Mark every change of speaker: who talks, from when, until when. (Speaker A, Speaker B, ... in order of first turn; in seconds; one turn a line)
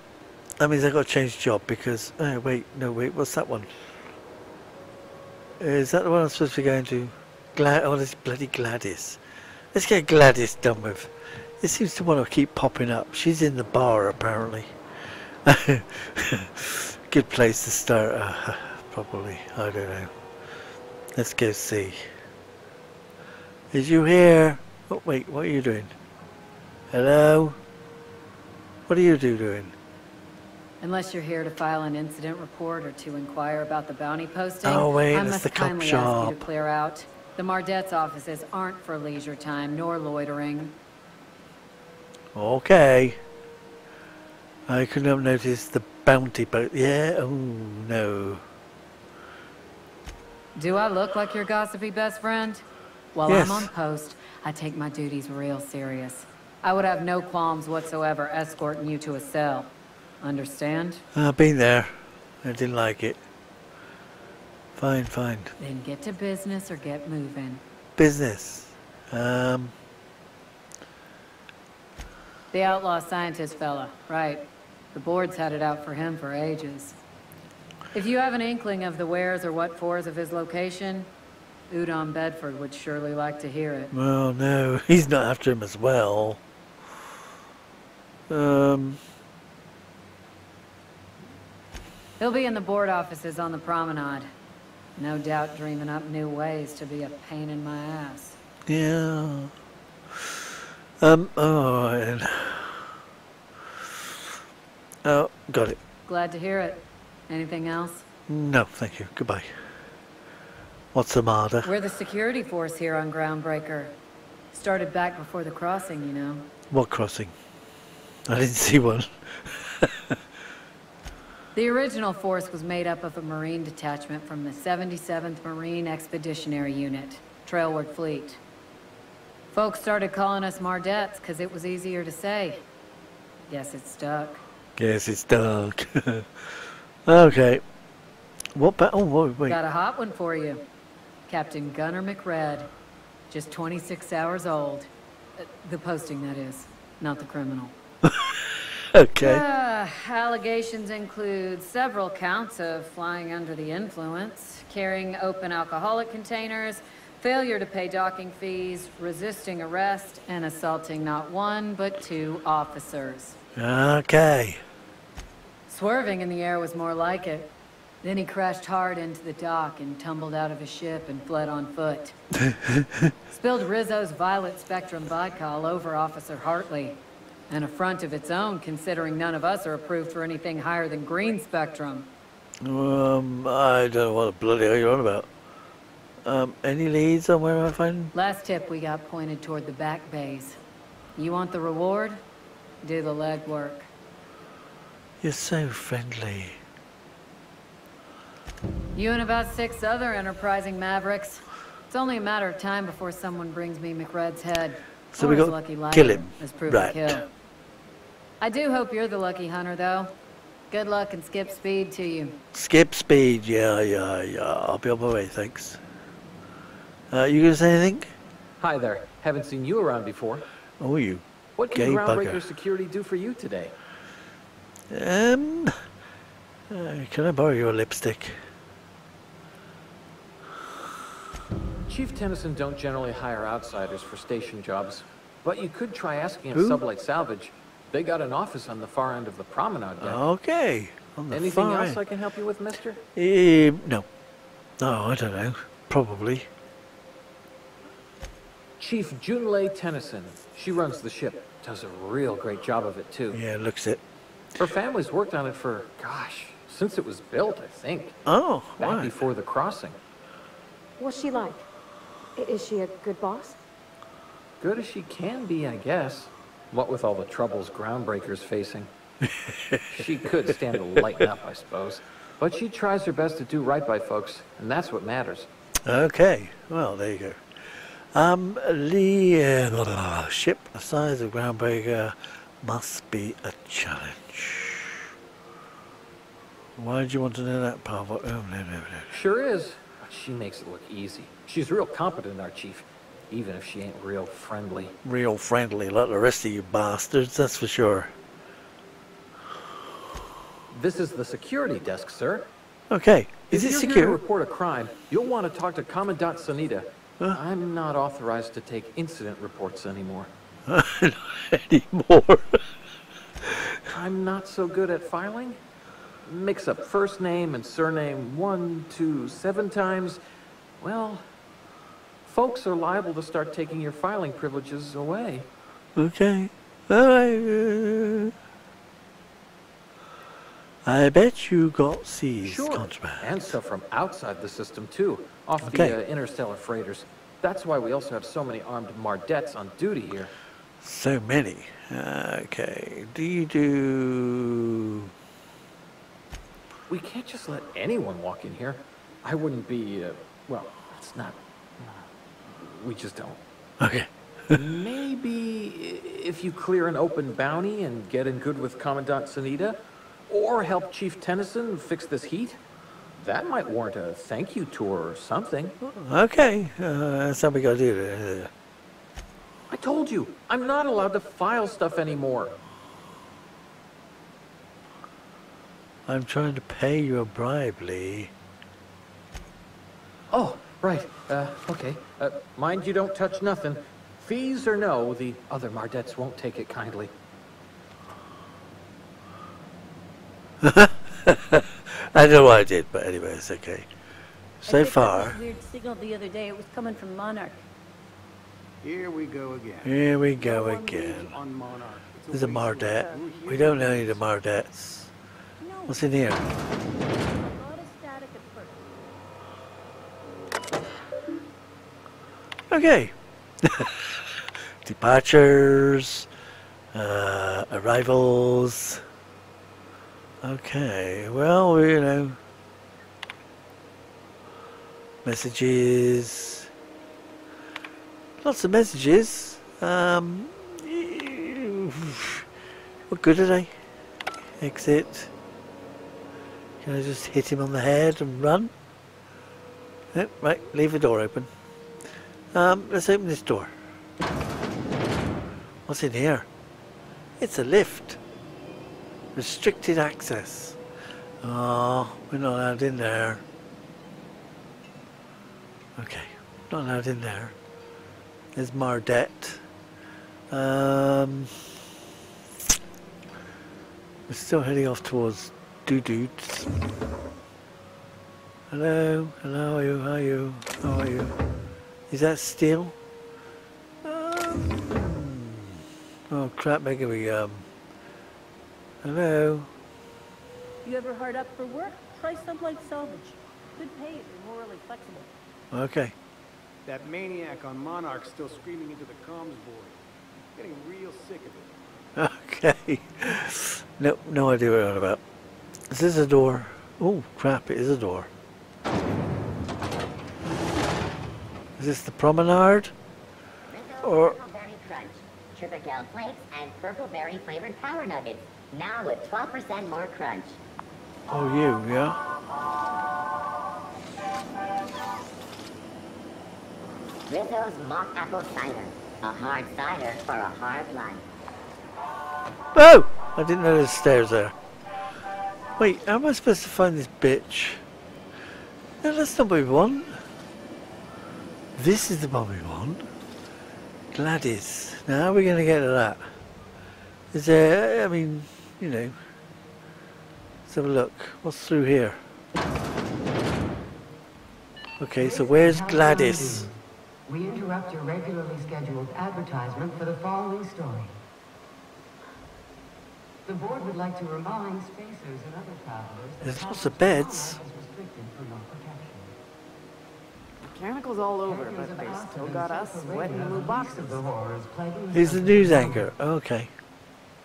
Speaker A: 0.6-3.7
Speaker A: 5.6-9.2
Speaker A: 9.7-14.8
Speaker A: 15.4-20.1
Speaker A: 21.1-22.1
Speaker A: 23.7-25.9
Speaker A: 26.9-27.6
Speaker A: 28.9-29.8
Speaker B: 30.8-40.8
Speaker A: 34.6-36.4
Speaker A: 42.4-43.2
Speaker A: 44.7-48.4
Speaker B: 50.6-61.0
Speaker A: 53.3-53.7
Speaker A: 61.1-63.2
Speaker A: 64.8-65.5
Speaker B: 65.6-67.6
Speaker A: 68.0-69.7
Speaker B: 72.5-77.0
Speaker B: 77.9-81.1
Speaker B: 81.7-83.9
Speaker A: 83.9-86.4
Speaker A: 88.3-89.0
Speaker B: 92.2-94.3
Speaker B: 95.0-98.4
Speaker A: 98.7-99.5
Speaker A: 100.1-102.9
Speaker A: 103.7-104.3
Speaker A: 105.0-105.8
Speaker B: 106.1-108.0
Speaker A: 108.3-109.6
Speaker A: 110.9-111.7
Speaker B: 111.6-113.9
Speaker B: 114.5-116.5
Speaker A: 116.7-117.3
Speaker A: 118.3-120.2
Speaker B: 121.5-128.4
Speaker B: 129.5-132.7
Speaker B: 133.5-134.4
Speaker A: 134.8-137.6
Speaker A: 138.5-139.6
Speaker B: 139.4-140.6
Speaker B: 141.3-142.7
Speaker B: 143.3-147.7
Speaker A: 148.0-149.4
Speaker B: 149.2-163.4
Speaker A: 163.6-164.6
Speaker B: 165.7-167.5
Speaker B: 168.0-172.2
Speaker A: 172.4-173.1
Speaker B: 173.3-182.1
Speaker A: 182.6-185.3
Speaker A: 186.2-188.1
Speaker B: 188.1-190.6
Speaker B: 191.2-192.2
Speaker B: 192.8-193.9
Speaker A: 195.2-196.6
Speaker B: 198.9-207.3
Speaker A: 205.1-207.2
Speaker B: 208.4-210.1
Speaker B: 210.7-212.4
Speaker A: 212.5-215.8
Speaker A: 217.1-218.1
Speaker C: 218.6-220.4
Speaker A: 220.8-222.4
Speaker C: 221.6-223.7
Speaker A: 224.9-225.8
Speaker A: 226.7-228.4
Speaker C: 231.9-240.2
Speaker A: 236.5-236.8
Speaker A: 240.0-242.0
Speaker C: 241.3-243.0
Speaker A: 243.2-244.1
Speaker A: 244.8-246.5
Speaker C: 248.8-253.4
Speaker A: 253.3-254.0
Speaker C: 254.6-258.2
Speaker A: 258.3-259.1
Speaker C: 258.8-260.0
Speaker D: 261.0-261.6
Speaker D: 262.4-263.6
Speaker C: 264.6-268.9
Speaker A: 269.2-271.3
Speaker C: 269.9-275.5
Speaker A: 275.9-285.1
Speaker A: 286.8-289.1
Speaker C: 289.1-294.9
Speaker A: 295.0-298.1
Speaker C: 300.7-302.5
Speaker A: 302.9-304.2
Speaker C: 303.5-310.3
Speaker A: 310.7-312.6
Speaker A: 313.4-313.8
Speaker C: 313.9-315.6
Speaker C: 316.3-320.2
Speaker C: 320.8-321.3
Speaker C: 322.2-325.5
Speaker A: 326.0-328.3
Speaker A: 330.9-333.6
Speaker C: 332.4-340.3
Speaker A: 335.6-335.9
Speaker A: 340.8-345.1
Speaker C: 346.9-353.4
Speaker A: 353.8-354.6
Speaker C: 354.5-359.8
Speaker C: 360.3-362.6
Speaker C: 363.2-365.8
Speaker A: 365.8-368.5
Speaker C: 369.7-372.6
Speaker A: 376.1-378.3
Speaker C: 380.3-387.1
Speaker A: 390.6-393.9
Speaker A: 394.6-395.4
Speaker E: 394.7-397.7
Speaker F: 398.8-404.3
Speaker A: 399.8-401.4
Speaker A: 402.3-405.1
Speaker E: 405.6-406.0
Speaker A: 405.9-406.5
Speaker E: 407.2-408.8
Speaker A: 412.7-416.3
Speaker A: 416.9-419.0
Speaker A: 420.4-422.4
Speaker A: 425.2-426.7
Speaker A: 428.4-432.5
Speaker A: 433.1-433.8
Speaker A: 434.6-435.3
Speaker A: 436.8-438.7
Speaker A: 440.1-441.5
Speaker A: 442.5-443.7
Speaker A: 445.9-446.5
Speaker A: 447.4-448.2
Speaker A: 449.3-450.8
Speaker A: 451.4-453.4
Speaker A: 456.0-457.6
Speaker A: 458.6-459.6
Speaker A: 460.5-461.6
Speaker A: 464.3-466.7
Speaker A: 468.7-471.3
Speaker A: 472.1-473.0
Speaker A: 474.0-477.7
Speaker A: 479.0-479.7
Speaker E: 480.9-485.3
Speaker A: 485.7-486.1
Speaker F: 486.9-490.0
Speaker F: 490.6-491.7
Speaker A: 492.2-495.2
Speaker A: 495.9-498.3
Speaker A: 501.8-502.9
Speaker G: 503.7-510.6
Speaker A: 504.0-504.4
Speaker A: 511.3-512.2
Speaker G: 517.3-521.2
Speaker A: 522.7-524.5
Speaker A: 525.8-527.8
Speaker A: 529.0-530.2
Speaker A: 531.8-533.1
Speaker A: 534.1-536.3
Speaker A: 537.3-539.2
Speaker A: 540.7-542.2
Speaker A: 545.0-546.7
Speaker H: 545.2-551.2
Speaker H: 553.5-559.3
Speaker A: 556.4-557.6
Speaker I: 560.6-564.2
Speaker H: 561.5-566.1
Speaker A: 565.1-566.7